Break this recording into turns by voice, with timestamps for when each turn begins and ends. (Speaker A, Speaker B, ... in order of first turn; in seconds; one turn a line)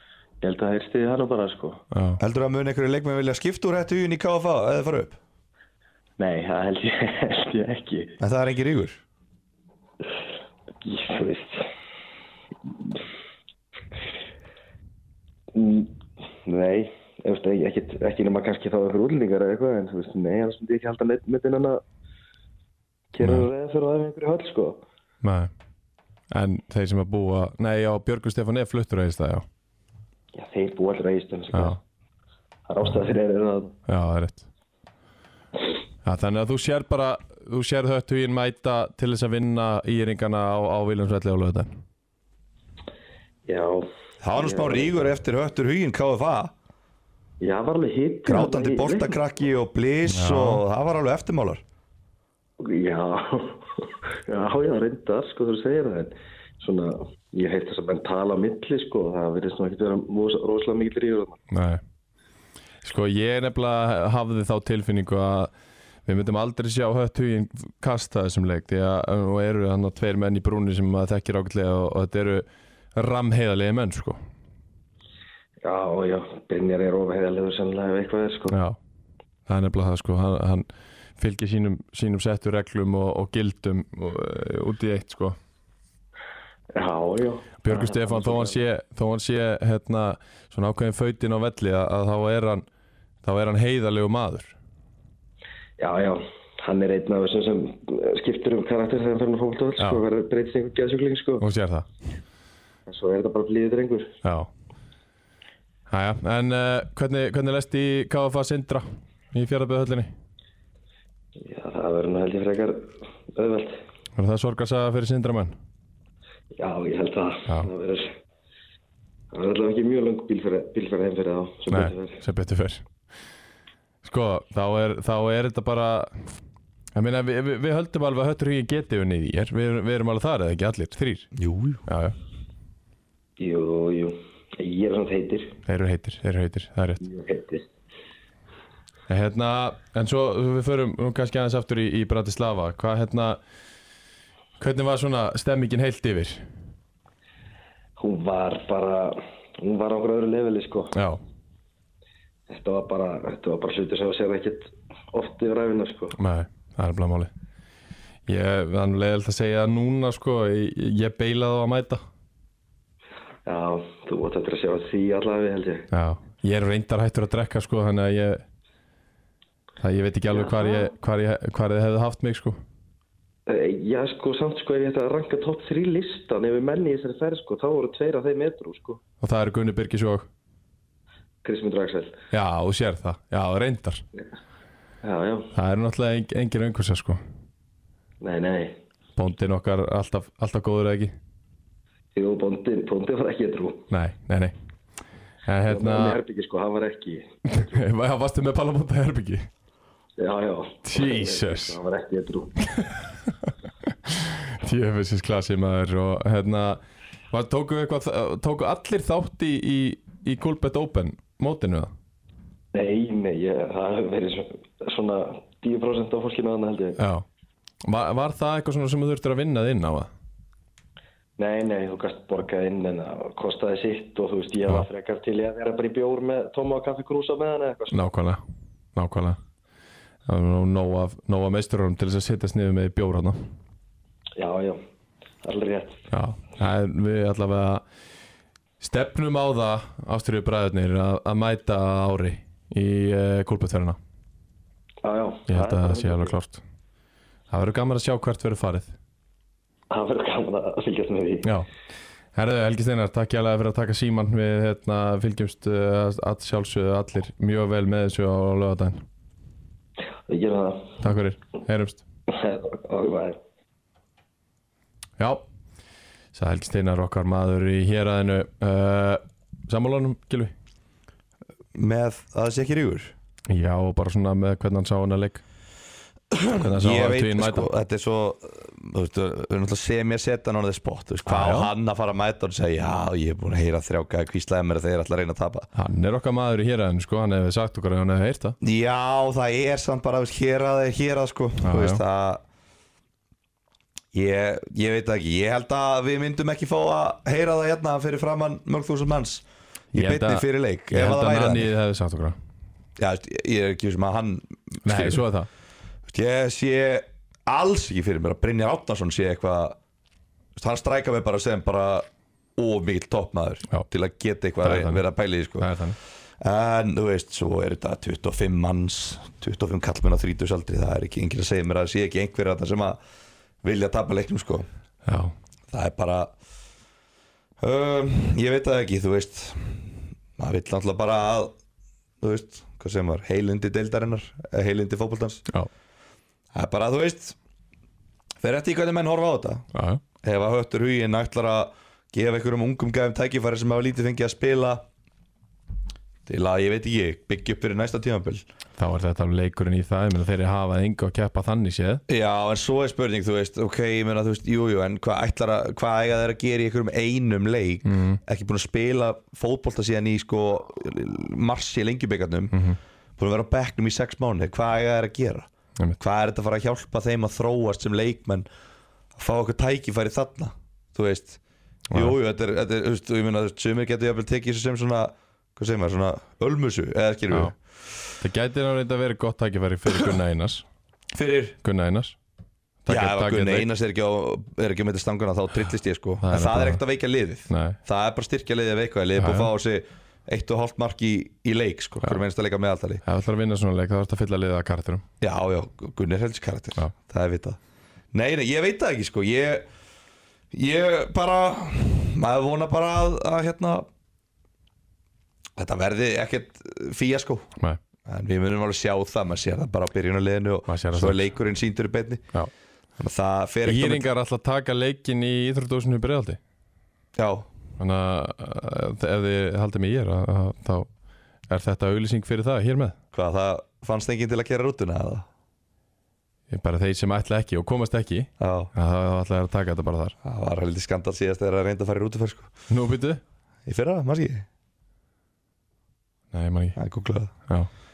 Speaker A: 0.4-1.8
Speaker B: 1.9-2.2
Speaker C: 2.2-5.2
Speaker A: 6.2-8.2
Speaker C: 8.2-9.0
Speaker A: 10.8-11.7
Speaker A: 15.5-21.8
Speaker A: 23.1-24.8
Speaker B: 23.2-23.5
Speaker B: 25.2-25.5
Speaker B: 26.3-29.4
Speaker A: 30.3-31.8
Speaker B: 31.5-31.8
Speaker A: 32.7-33.8
Speaker B: 33.9-34.5
Speaker B: 36.0-41.7
Speaker A: 43.5-45.0
Speaker C: 44.2-46.5
Speaker A: 47.4-49.2
Speaker C: 48.2-51.6
Speaker B: 50.1-50.6
Speaker A: 52.6-61.4
Speaker B: 61.5-61.8
Speaker B: 62.8-65.5
Speaker B: 66.0-74.2
Speaker A: 75.6-78.5
Speaker B: 78.5-78.8
Speaker B: 79.5-80.7
Speaker B: 81.2-85.4
Speaker A: 86.7-88.6
Speaker B: 87.6-92.7
Speaker B: 93.2-94.5
Speaker A: 95.8-101.4
Speaker B: 99.8-100.0
Speaker B: 101.4-101.9
Speaker A: 102.9-104.1
Speaker B: 104.2-104.5
Speaker B: 105.9-110.1
Speaker A: 111.4-113.8
Speaker B: 114.2-115.5
Speaker A: 116.5-118.2
Speaker A: 119.3-122.2
Speaker B: 121.7-122.8
Speaker B: 124.0-126.2
Speaker B: 126.9-131.3
Speaker C: 131.3-131.8
Speaker B: 131.8-132.2
Speaker A: 133.4-135.6
Speaker B: 135.7-137.0
Speaker A: 137.0-137.6
Speaker B: 139.1-143.4
Speaker B: 144.6-146.4
Speaker A: 148.0-150.9
Speaker B: 150.9-151.2
Speaker A: 152.5-156.2
Speaker B: 156.1-157.3
Speaker B: 158.3-162.0
Speaker A: 163.4-165.9
Speaker B: 165.9-168.4
Speaker B: 169.8-172.6
Speaker A: 170.3-170.8
Speaker A: 173.5-179.0
Speaker B: 179.2-180.3
Speaker A: 181.4-182.2
Speaker B: 182.3-184.0
Speaker A: 185.0-185.5
Speaker B: 185.5-187.2
Speaker A: 188.2-188.8
Speaker B: 189.2-191.1
Speaker A: 192.1-193.9
Speaker B: 193.9-194.5
Speaker B: 195.4-196.2
Speaker A: 195.7-197.8
Speaker B: 197.4-199.5
Speaker A: 200.2-202.6
Speaker B: 200.8-201.8
Speaker B: 202.7-206.8
Speaker B: 207.3-211.9
Speaker A: 212.7-217.0
Speaker B: 217.0-217.2
Speaker B: 217.8-220.1
Speaker A: 221.4-228.0
Speaker B: 227.9-228.4
Speaker B: 228.9-229.4
Speaker B: 230.2-233.4
Speaker A: 234.4-234.8
Speaker A: 235.4-236.0
Speaker B: 236.1-237.8
Speaker B: 238.8-244.0
Speaker A: 245.0-246.3
Speaker B: 245.5-246.6
Speaker B: 247.5-248.9
Speaker A: 249.9-251.5
Speaker B: 251.4-251.7
Speaker B: 252.3-259.0
Speaker A: 260.3-261.0
Speaker B: 261.0-262.0
Speaker A: 262.3-263.4
Speaker B: 265.2-265.4
Speaker B: 266.3-270.5
Speaker C: 271.7-273.1
Speaker B: 273.5-275.4
Speaker C: 276.3-285.7
Speaker B: 276.6-277.7
Speaker B: 281.2-281.7
Speaker B: 285.7-288.6
Speaker C: 288.6-292.4
Speaker B: 291.6-292.0
Speaker C: 294.1-301.7
Speaker B: 299.9-302.4
Speaker C: 303.0-305.2
Speaker B: 304.9-305.5
Speaker C: 306.1-309.8
Speaker C: 310.6-315.7
Speaker B: 314.6-315.0
Speaker B: 315.6-315.9
Speaker C: 316.4-323.0
Speaker C: 323.6-324.6
Speaker B: 325.1-325.3
Speaker C: 325.7-326.3
Speaker C: 327.6-331.5
Speaker C: 332.2-335.4
Speaker C: 336.5-337.4
Speaker C: 338.4-339.7
Speaker B: 339.7-340.0
Speaker C: 340.2-344.9
Speaker C: 346.2-348.4
Speaker B: 348.8-352.0
Speaker C: 352.1-362.6
Speaker B: 357.9-358.2
Speaker B: 362.5-362.8
Speaker C: 363.2-365.5
Speaker C: 366.0-368.4
Speaker C: 369.1-371.4
Speaker B: 371.9-372.1
Speaker C: 371.9-377.5
Speaker B: 378.2-380.6
Speaker C: 381.1-381.6
Speaker B: 381.6-382.2
Speaker B: 382.9-383.7
Speaker C: 382.9-393.0
Speaker B: 386.2-386.8
Speaker B: 387.5-387.8
Speaker B: 389.2-389.5
Speaker B: 393.0-395.0
Speaker C: 395.2-397.6
Speaker C: 398.1-399.6
Speaker C: 400.5-403.9
Speaker C: 405.6-407.5
Speaker C: 408.0-412.2
Speaker B: 410.7-411.2
Speaker C: 413.0-414.0
Speaker B: 413.6-416.4
Speaker C: 417.1-417.5
Speaker B: 417.8-420.9
Speaker B: 421.5-423.0
Speaker C: 423.1-425.3
Speaker B: 426.5-430.1
Speaker C: 428.4-428.7
Speaker C: 430.2-432.5
Speaker B: 432.7-433.2
Speaker C: 433.6-434.4
Speaker B: 436.3-436.8
Speaker C: 436.8-437.3